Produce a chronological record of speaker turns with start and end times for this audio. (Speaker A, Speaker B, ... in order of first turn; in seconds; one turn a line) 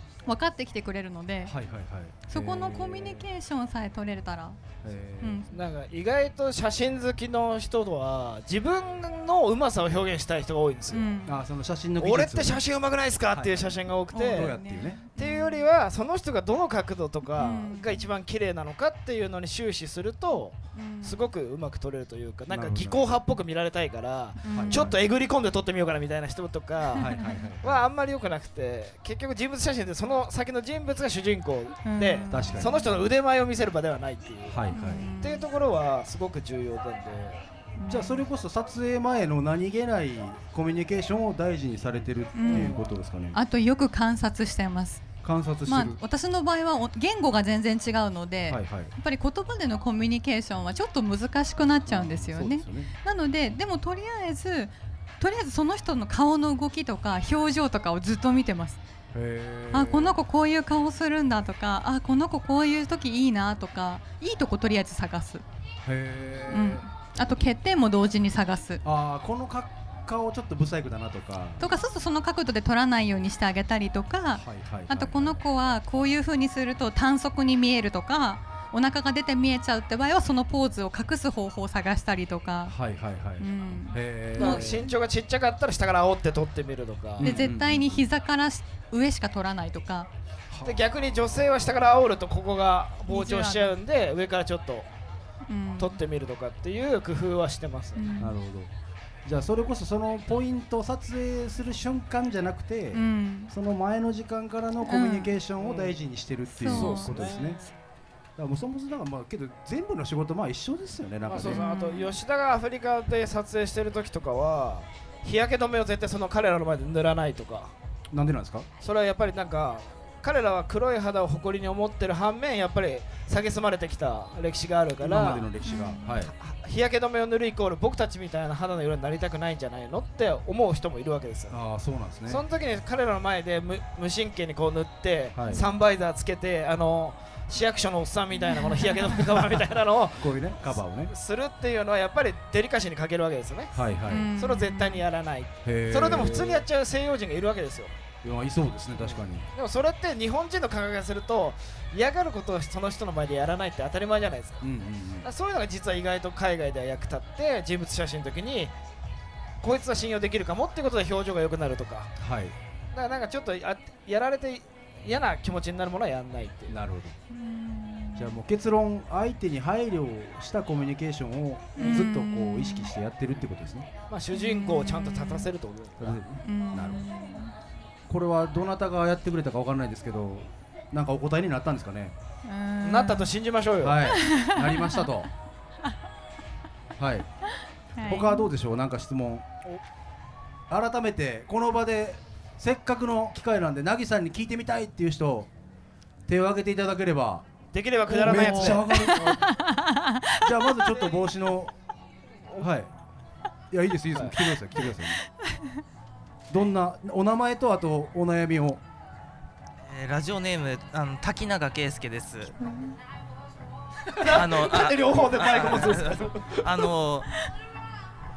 Speaker A: 0.2-1.5
Speaker B: 1.4-3.3
Speaker A: 2.3-4.6
Speaker B: 4.8-5.4
Speaker A: 5.2-5.6
Speaker C: 5.5-11.1
Speaker A: 10.9-11.4
Speaker B: 11.2-12.6
Speaker C: 12.0-37.4
Speaker B: 13.3-15.0
Speaker A: 14.1-15.7
Speaker A: 17.3-18.1
Speaker A: 20.8-21.3
Speaker B: 22.5-23.2
Speaker A: 24.4-24.9
Speaker B: 24.5-25.0
Speaker A: 26.9-27.5
Speaker B: 27.0-27.9
Speaker A: 31.8-33.0
Speaker B: 32.3-32.8
Speaker B: 34.5-35.1
Speaker A: 34.7-35.5
Speaker A: 37.8-38.2
Speaker B: 37.9-43.4
Speaker A: 42.4-42.7
Speaker C: 42.5-42.8
Speaker A: 43.3-45.1
Speaker B: 45.2-46.0
Speaker A: 45.6-58.8
Speaker B: 48.5-48.9
Speaker B: 51.9-52.9
Speaker B: 59.1-60.2
Speaker A: 59.7-65.4
Speaker B: 65.8-67.3
Speaker A: 66.5-68.8
Speaker B: 68.8-71.7
Speaker A: 71.6-82.8
Speaker B: 74.4-75.4
Speaker B: 82.7-84.8
Speaker A: 83.4-84.9
Speaker C: 84.4-87.5
Speaker A: 87.2-90.1
Speaker B: 87.2-88.1
Speaker B: 90.5-90.8
Speaker C: 90.7-94.9
Speaker A: 93.1-93.8
Speaker A: 95.5-96.0
Speaker C: 95.8-98.1
Speaker A: 98.0-98.4
Speaker B: 98.2-98.7
Speaker B: 99.2-107.6
Speaker A: 102.9-103.5
Speaker A: 104.8-105.4
Speaker C: 105.6-106.0
Speaker A: 106.5-107.6
Speaker C: 106.6-107.6
Speaker B: 108.4-111.6
Speaker C: 111.3-117.8
Speaker A: 111.5-112.2
Speaker B: 118.1-118.7
Speaker C: 118.8-125.5
Speaker B: 125.0-126.3
Speaker A: 125.6-126.2
Speaker C: 126.2-131.6
Speaker B: 131.5-132.4
Speaker C: 132.3-147.9
Speaker B: 135.3-135.7
Speaker A: 138.6-138.9
Speaker B: 140.2-141.1
Speaker B: 143.7-144.3
Speaker A: 144.1-145.0
Speaker B: 145.7-146.7
Speaker B: 148.2-149.5
Speaker C: 149.0-154.7
Speaker B: 154.6-155.3
Speaker C: 155.2-158.8
Speaker C: 159.6-162.1
Speaker B: 162.2-162.6
Speaker C: 162.9-166.8
Speaker B: 166.7-167.2
Speaker A: 167.3-168.4
Speaker B: 168.2-173.9
Speaker A: 171.8-172.9
Speaker C: 171.8-172.1
Speaker C: 174.1-176.2
Speaker A: 174.3-175.5
Speaker B: 176.0-177.0
Speaker A: 176.4-177.6
Speaker B: 178.1-182.2
Speaker A: 182.5-183.4
Speaker C: 182.8-184.0
Speaker B: 183.8-185.3
Speaker A: 184.1-185.1
Speaker B: 187.0-187.3
Speaker A: 188.0-188.5
Speaker B: 188.0-189.5
Speaker B: 190.7-195.5
Speaker B: 196.3-197.5
Speaker C: 197.7-199.4
Speaker B: 198.1-199.6
Speaker A: 198.8-200.5
Speaker B: 200.3-201.7
Speaker B: 202.6-202.9
Speaker B: 203.7-205.2
Speaker C: 204.2-205.0
Speaker B: 206.5-208.8
Speaker D: 209.9-212.5
Speaker C: 214.2-216.9
Speaker D: 214.2-217.3